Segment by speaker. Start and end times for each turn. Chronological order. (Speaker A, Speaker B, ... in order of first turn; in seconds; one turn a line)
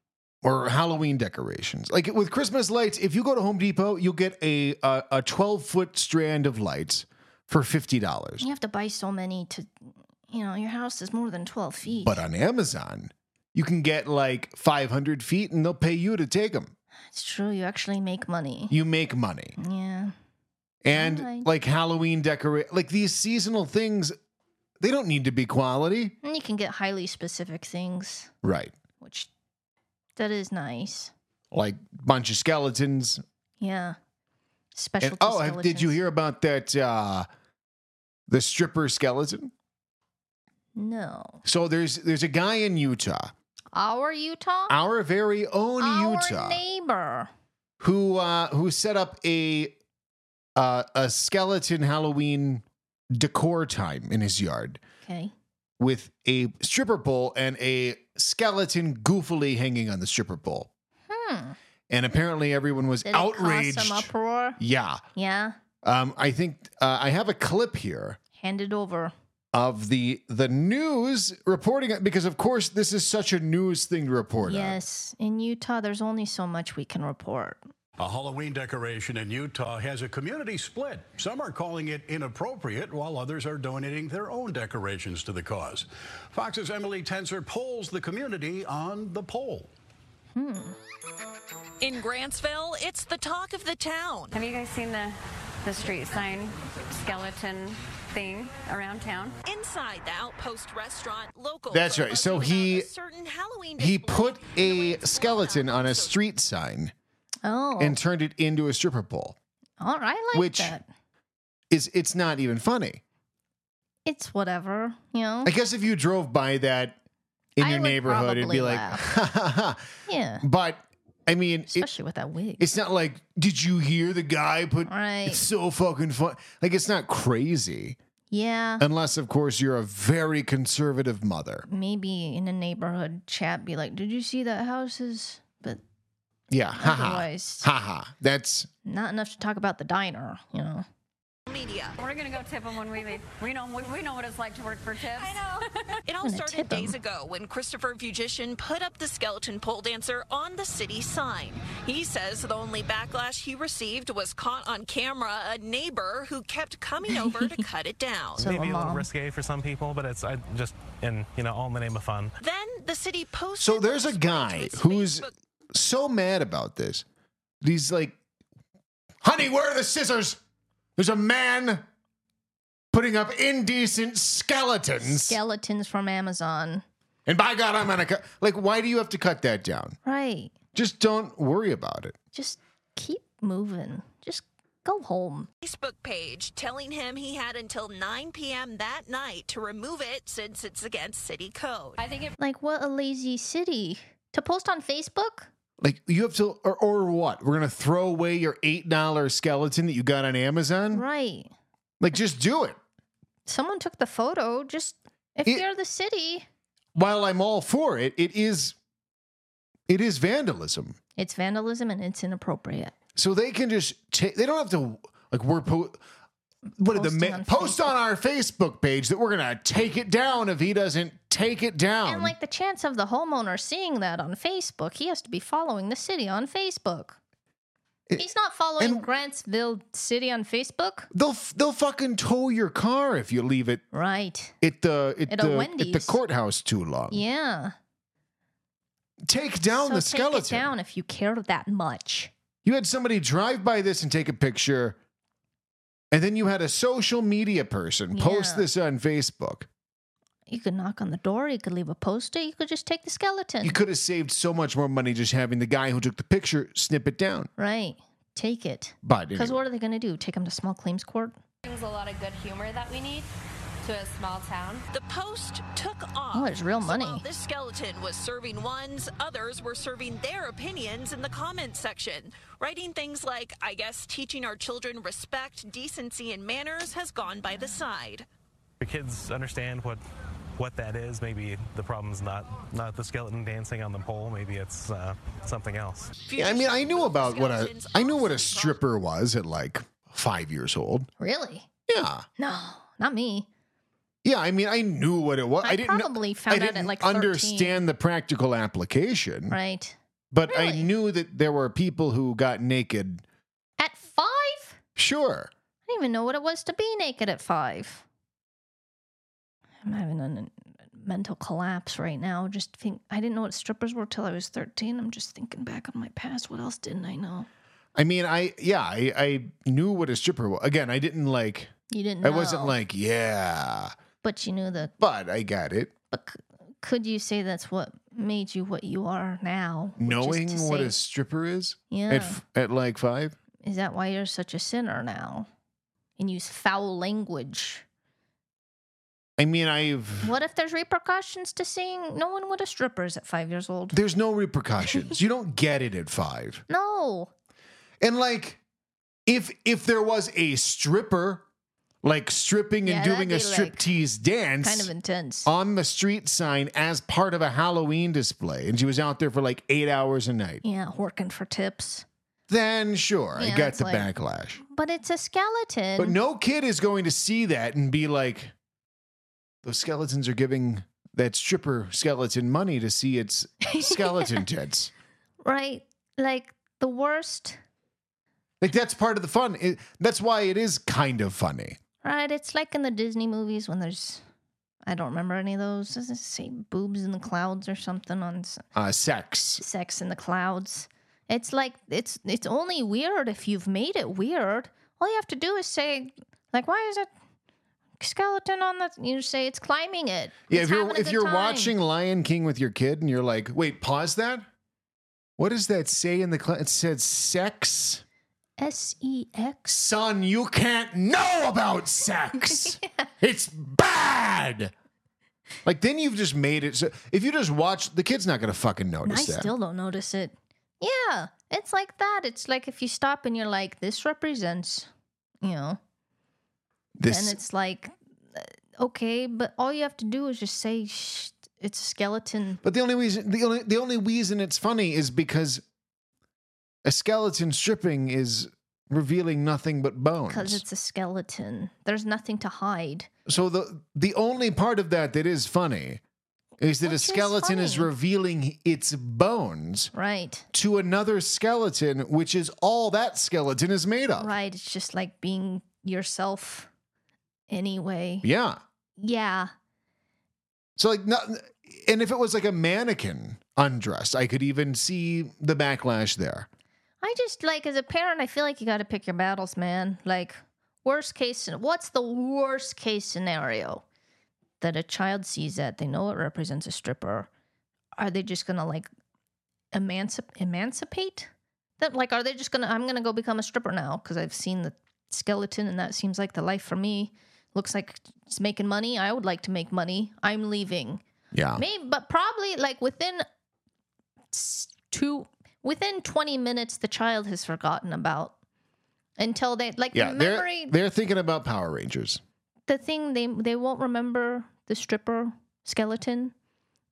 Speaker A: 0.4-8.4
Speaker B: 8.4-9.7
Speaker B: 10.3-12.2
Speaker A: 11.9-16.7
Speaker B: 17.1-18.7
Speaker A: 18.7-19.6
Speaker B: 19.6-20.1
Speaker A: 20.8-24.1
Speaker B: 20.9-21.5
Speaker A: 24.8-26.1
Speaker B: 26.2-28.3
Speaker A: 28.4-28.7
Speaker B: 29.0-29.3
Speaker B: 30.1-31.1
Speaker A: 31.5-33.2
Speaker B: 33.6-34.0
Speaker B: 34.7-36.0
Speaker A: 35.0-37.3
Speaker A: 38.3-39.5
Speaker B: 40.8-41.4
Speaker A: 41.4-43.3
Speaker B: 43.7-44.7
Speaker A: 44.7-46.6
Speaker B: 45.8-47.3
Speaker A: 47.8-49.7
Speaker A: 50.5-54.8
Speaker B: 55.0-55.3
Speaker A: 55.8-60.7
Speaker B: 61.1-61.6
Speaker A: 61.9-65.0
Speaker B: 63.0-64.6
Speaker B: 65.2-65.6
Speaker A: 65.8-68.2
Speaker B: 68.4-69.1
Speaker A: 69.5-74.8
Speaker B: 74.4-77.6
Speaker C: 78.0-89.7
Speaker B: 90.3-90.8
Speaker D: 91.8-94.3
Speaker E: 94.3-99.3
Speaker D: 99.4-106.1
Speaker A: 101.7-102.9
Speaker A: 103.8-106.9
Speaker B: 107.4-108.0
Speaker A: 107.8-109.3
Speaker B: 109.8-110.8
Speaker A: 110.3-110.7
Speaker A: 111.7-113.0
Speaker B: 114.0-115.5
Speaker A: 115.4-117.0
Speaker A: 117.6-119.8
Speaker B: 117.6-119.0
Speaker B: 120.1-120.4
Speaker A: 120.4-121.9
Speaker B: 121.7-122.7
Speaker A: 122.6-128.0
Speaker B: 124.9-125.4
Speaker B: 128.3-128.8
Speaker A: 128.8-131.7
Speaker B: 131.7-135.8
Speaker A: 136.5-138.7
Speaker B: 136.8-137.7
Speaker B: 138.8-140.8
Speaker D: 141.5-142.0
Speaker E: 142.0-146.0
Speaker D: 145.2-158.5
Speaker B: 146.2-146.9
Speaker B: 157.1-157.4
Speaker B: 158.4-159.1
Speaker F: 158.4-162.3
Speaker D: 162.4-165.3
Speaker A: 163.6-167.0
Speaker A: 167.6-168.2
Speaker A: 169.2-170.4
Speaker A: 171.0-171.8
Speaker A: 172.9-175.4
Speaker B: 175.0-176.8
Speaker A: 177.3-180.0
Speaker B: 180.0-180.6
Speaker A: 180.7-182.1
Speaker B: 182.3-185.5
Speaker D: 185.6-192.0
Speaker E: 192.0-192.3
Speaker B: 192.4-195.5
Speaker A: 195.8-201.0
Speaker B: 200.9-201.5
Speaker A: 202.0-202.8
Speaker B: 203.4-206.4
Speaker A: 206.9-208.7
Speaker A: 209.9-211.0
Speaker B: 211.2-212.9
Speaker A: 213.2-216.0
Speaker A: 216.8-222.3
Speaker B: 216.8-217.9
Speaker B: 222.0-227.2
Speaker B: 228.2-231.1
Speaker A: 228.8-229.1
Speaker A: 231.1-233.8
Speaker B: 233.9-234.6
Speaker A: 234.6-237.2
Speaker B: 235.3-236.2
Speaker B: 237.1-237.8
Speaker A: 239.3-240.7
Speaker B: 239.7-242.3
Speaker A: 242.6-245.0
Speaker A: 246.1-249.7
Speaker B: 248.1-248.7
Speaker B: 250.5-253.8
Speaker A: 253.6-257.5
Speaker B: 257.6-261.4
Speaker A: 259.0-259.6
Speaker E: 261.6-263.3
Speaker E: 263.8-264.8
Speaker D: 264.9-278.2
Speaker B: 266.3-267.3
Speaker F: 278.8-280.0
Speaker F: 280.6-286.2
Speaker D: 286.2-288.8
Speaker A: 286.4-291.1
Speaker B: 291.2-291.6
Speaker A: 291.9-292.2
Speaker B: 292.4-293.5
Speaker A: 294.2-299.6
Speaker B: 295.6-297.8
Speaker B: 299.5-299.9
Speaker A: 300.3-303.2
Speaker B: 300.5-300.9
Speaker B: 303.8-304.8
Speaker A: 304.9-305.5
Speaker B: 305.9-308.0
Speaker B: 309.8-317.5
Speaker A: 317.9-321.7
Speaker B: 321.9-322.8
Speaker A: 322.2-323.9
Speaker B: 324.2-324.9
Speaker A: 325.0-325.9
Speaker B: 326.1-330.9
Speaker A: 330.0-333.4
Speaker B: 331.9-332.4
Speaker B: 333.6-335.5
Speaker B: 336.2-337.8
Speaker A: 339.4-340.3
Speaker B: 340.2-344.0
Speaker A: 343.9-346.6
Speaker B: 346.7-347.3
Speaker A: 348.0-348.6
Speaker A: 349.3-351.4
Speaker A: 352.0-354.9
Speaker B: 352.8-353.9
Speaker B: 354.6-355.5
Speaker A: 355.4-360.6
Speaker B: 360.6-362.1
Speaker A: 362.5-364.6
Speaker B: 363.3-364.1
Speaker B: 364.6-366.1
Speaker A: 366.0-368.5
Speaker A: 369.6-374.9
Speaker B: 373.7-374.4
Speaker B: 375.4-377.6
Speaker A: 378.6-381.8
Speaker B: 382.0-384.2
Speaker B: 384.9-388.7
Speaker A: 388.7-389.6
Speaker B: 389.6-397.1
Speaker B: 398.0-401.7
Speaker A: 400.5-404.4
Speaker A: 405.4-408.0
Speaker B: 408.6-409.7
Speaker A: 409.7-414.7
Speaker B: 412.5-413.0
Speaker A: 415.6-419.5
Speaker B: 419.0-424.9
Speaker B: 425.4-425.8
Speaker A: 427.0-427.4
Speaker B: 427.1-432.6
Speaker A: 432.6-435.6
Speaker A: 436.8-440.6
Speaker B: 440.3-443.1
Speaker A: 443.3-446.0
Speaker A: 446.6-449.9
Speaker B: 446.8-447.9
Speaker B: 449.9-450.5
Speaker A: 450.5-454.3
Speaker B: 454.1-456.7
Speaker B: 457.5-458.2
Speaker A: 458.2-458.6
Speaker B: 459.0-459.5
Speaker A: 460.8-466.5
Speaker B: 467.0-473.8
Speaker B: 474.6-477.3
Speaker B: 478.0-478.9
Speaker B: 479.7-491.0
Speaker A: 491.3-491.6
Speaker B: 491.5-493.2
Speaker B: 494.3-498.3
Speaker B: 499.2-500.7
Speaker A: 499.9-502.2
Speaker B: 502.7-506.3